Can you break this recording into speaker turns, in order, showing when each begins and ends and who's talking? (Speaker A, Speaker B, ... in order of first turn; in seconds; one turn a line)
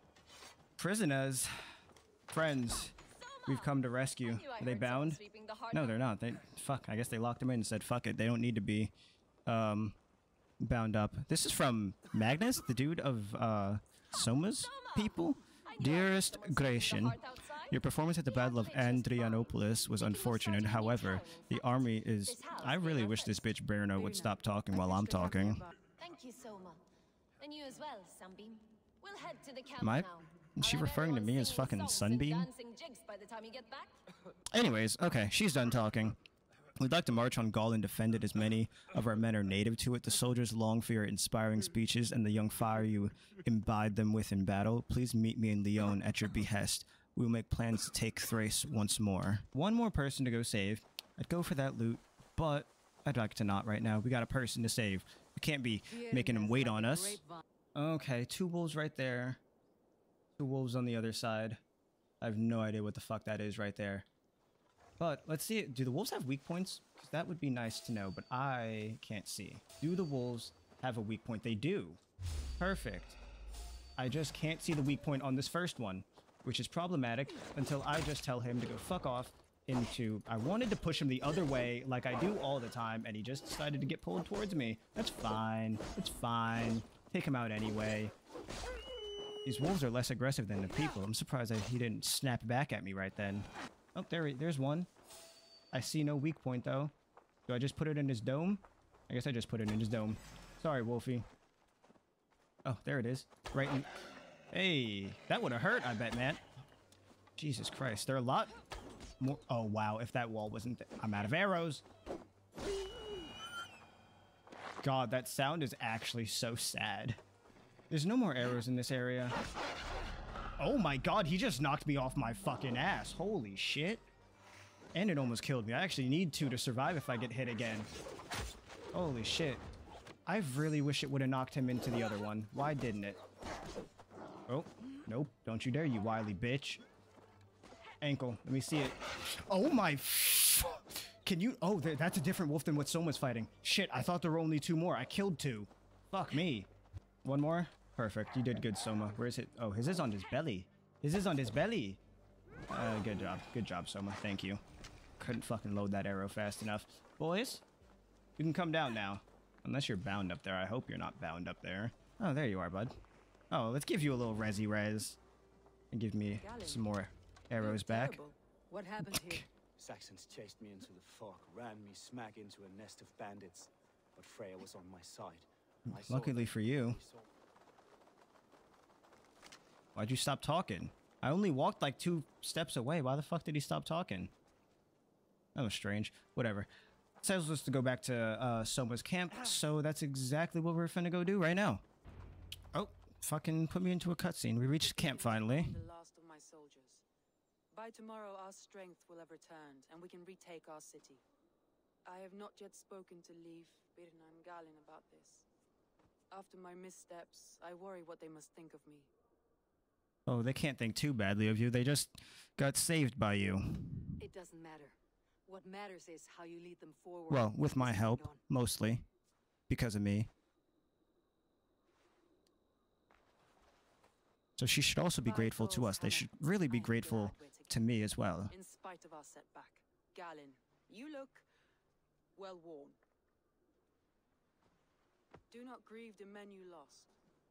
Speaker A: 0.8-1.6
Speaker A: 2.3-2.9
Speaker B: 3.1-6.0
Speaker A: 3.5-5.2
Speaker A: 5.7-8.9
Speaker A: 9.5-10.0
Speaker A: 10.6-25.6
Speaker B: 14.4-23.5
Speaker C: 23.9-25.7
Speaker B: 26.0-26.8
Speaker B: 27.4-33.9
Speaker A: 29.8-32.5
Speaker A: 34.5-36.2
Speaker A: 36.8-57.2
Speaker D: 55.9-57.4
Speaker A: 57.8-59.4
Speaker A: 60.4-61.6
Speaker A: 62.2-64.1
Speaker A: 65.0-72.0
Speaker A: 72.6-73.2
Speaker A: 74.0-88.1
Speaker A: 89.5-94.9
Speaker A: 95.7-96.9
Speaker A: 97.5-101.3
Speaker A: 102.7-103.9
Speaker A: 104.5-106.4
Speaker A: 107.4-108.5
Speaker A: 109.2-111.8
Speaker A: 114.8-117.2
Speaker A: 117.9-119.4
Speaker A: 120.6-124.0
Speaker A: 124.9-127.9
Speaker A: 128.9-129.7
Speaker A: 130.3-133.2
Speaker A: 134.5-136.8
Speaker A: 138.0-146.7
Speaker A: 147.2-152.0
Speaker A: 152.7-154.6
Speaker A: 155.2-157.6
Speaker A: 158.4-163.0
Speaker A: 163.5-165.2
Speaker A: 165.9-168.2
Speaker C: 166.4-166.9
Speaker C: 167.6-168.4
Speaker D: 168.7-169.5
Speaker A: 169.1-169.4
Speaker E: 169.8-177.3
Speaker A: 175.9-177.0
Speaker A: 180.0-184.3
Speaker A: 185.6-186.7
Speaker A: 187.2-191.8
Speaker A: 192.7-195.8
Speaker C: 194.8-197.0
Speaker C: 197.7-201.2
Speaker C: 202.1-205.4
Speaker C: 206.3-209.1
Speaker A: 210.3-214.2
Speaker D: 214.2-218.4
Speaker A: 217.3-219.1
Speaker A: 219.7-220.3
Speaker A: 224.6-228.5
Speaker C: 225.3-231.5
Speaker C: 232.4-233.0
Speaker C: 235.5-237.1